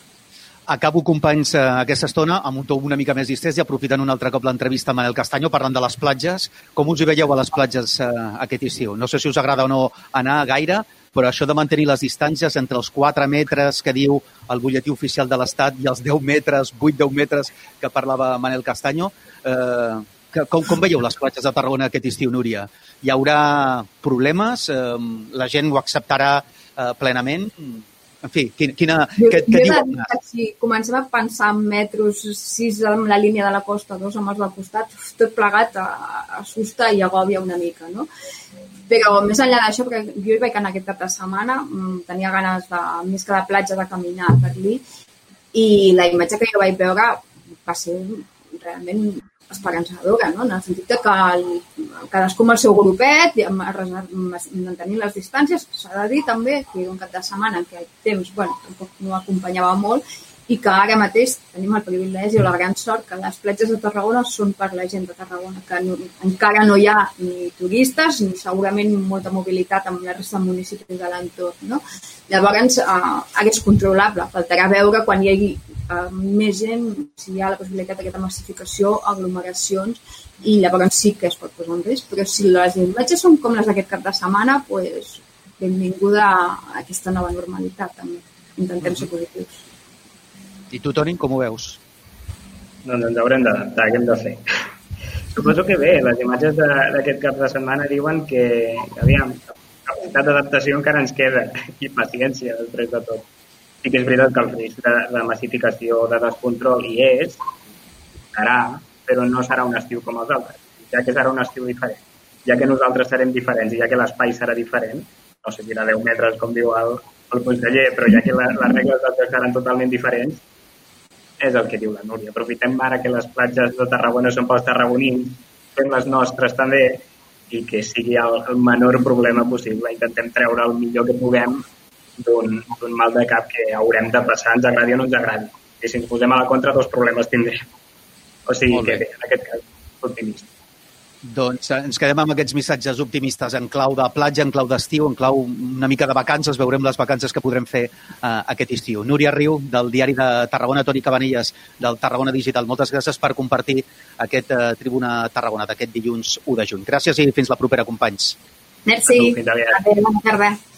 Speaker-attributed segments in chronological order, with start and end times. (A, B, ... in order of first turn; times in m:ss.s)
0:00.7-0:30.1 A
0:29.2-0:38.1 B
0:38.9-0:44.8 B
0:45.5-1:29.6 B
1:28.8-1:29.1 A
1:30.7-1:31.8 A
1:32.8-1:34.4 C
1:35.3-1:43.3 C
1:43.8-1:47.4 C
1:48.3-2:00.4 C
2:01.4-2:11.6 C
2:12.2-2:17.7 C
2:18.5-2:20.5 C
2:18.7-2:19.0 A
2:21.2-2:38.4 A
2:38.9-2:40.6 B
2:39.1-2:39.8 C